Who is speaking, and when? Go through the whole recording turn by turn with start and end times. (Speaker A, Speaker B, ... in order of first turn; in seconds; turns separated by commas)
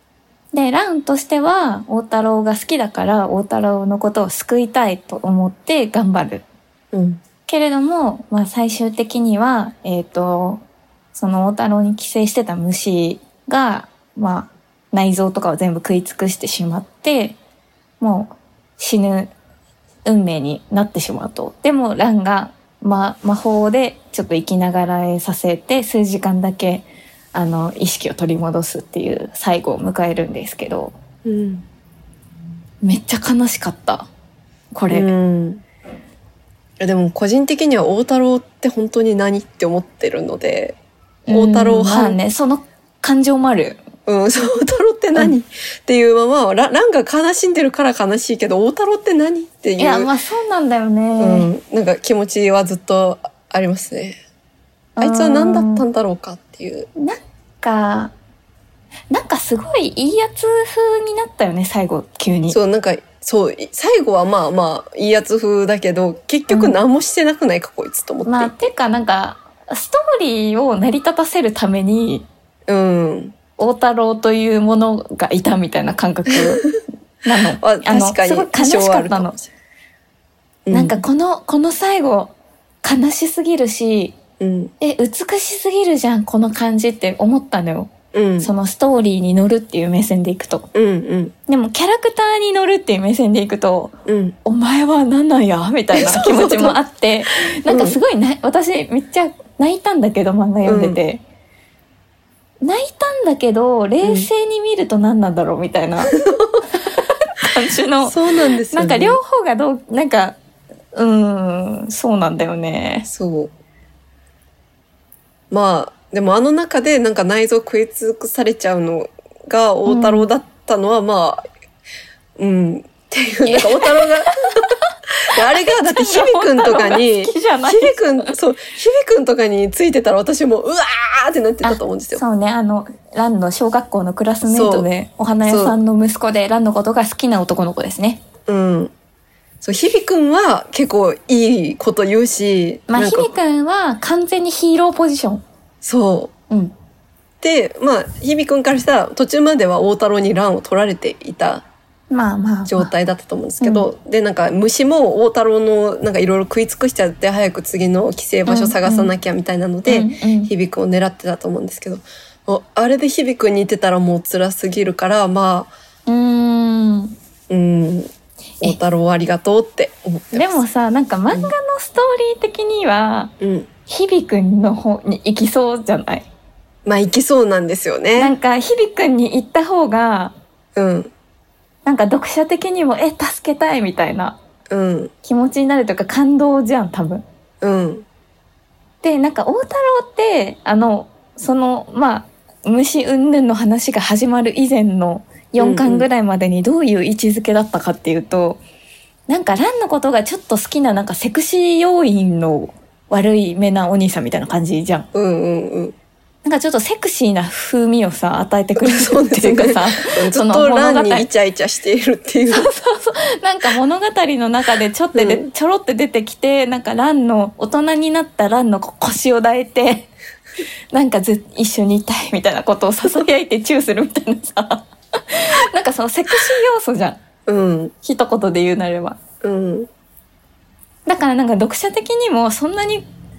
Speaker A: 0.5-6.4, Speaker B: 6.9-7.2, Speaker A: 7.5-10.6, Speaker A: 11.1-17.4, Speaker A: 18.0-19.3, Speaker A: 20.0-30.9, Speaker B: 31.2-31.6, Speaker A: 32.8-34.1, Speaker A: 34.7-35.1, Speaker B: 34.9-35.6, Speaker B: 36.8-40.8, Speaker A: 41.3-43.8, Speaker B: 41.3-42.2, Speaker B: 44.1-50.1, Speaker A: 49.8-51.5, Speaker B: 51.2-54.2, Speaker A: 55.0-55.8, Speaker B: 55.0-56.9, Speaker A: 57.0-58.1, Speaker A: 59.1-62.6, Speaker B: 62.5-68.6, Speaker A: 66.5-66.8, Speaker A: 68.2-72.3, Speaker B: 72.7-73.3, Speaker A: 73.6-76.7, Speaker B: 76.3-76.7, Speaker A: 77.2-79.3, Speaker B: 77.6-79.5, Speaker B: 80.7-81.0, Speaker A: 80.7-84.2, Speaker B: 84.4-84.7, Speaker A: 84.8-90.7, Speaker B: 88.1-88.5, Speaker B: 90.7-91.3, Speaker A: 91.5-101.2, Speaker B: 94.0-94.3, Speaker B: 95.9-96.8, Speaker B: 97.7-98.0, Speaker B: 100.7-101.0, Speaker A: 102.6-106.1, Speaker B: 104.0-104.3, Speaker B: 106.1-106.6, Speaker A: 106.8-108.2, Speaker B: 108.0-109.2, Speaker A: 108.7-110.4, Speaker A: 110.9-113.1, Speaker B: 113.1-113.5, Speaker B: 115.5-121.4, Speaker A: 119.9-120.3, Speaker B: 122.4-124.6, Speaker A: 123.5-124.8, Speaker B: 125.2-132.2, Speaker A: 125.3-128.3, Speaker A: 131.6-138.2, Speaker B: 134.5-134.9, Speaker B: 135.5-135.8, Speaker B: 138.5-138.9, Speaker B: 139.6-143.3, Speaker A: 142.9-145.4, Speaker B: 145.8-146.3, Speaker B: 147.4-151.6, Speaker A: 152.1-152.9, Speaker B: 152.7-165.7, Speaker A: 153.6-153.8, Speaker A: 158.4-159.1, Speaker A: 159.8-160.5, Speaker A: 166.1-167.1, Speaker B: 167.5-168.1, Speaker B: 168.6-170.6, Speaker A: 170.3-173.3, Speaker B: 173.4-173.7, Speaker A: 173.9-176.3, Speaker B: 176.8-178.3, Speaker A: 178.2-180.3, Speaker B: 180.8-181.1, Speaker A: 181.8-184.4, Speaker B: 184.7-185.1, Speaker A: 185.2-187.2, Speaker B: 187.6-188.1, Speaker A: 189.0-198.6, Speaker B: 195.6-196.1, Speaker A: 199.3-205.1, Speaker B: 205.1-205.9, Speaker A: 206.4-211.3, Speaker B: 208.8-212.7, Speaker A: 212.5-220.1, Speaker B: 215.1-215.5, Speaker A: 220.9-227.2, Speaker B: 227.5-227.9, Speaker A: 228.0-229.2, Speaker B: 229.4-229.9, Speaker A: 231.1-233.1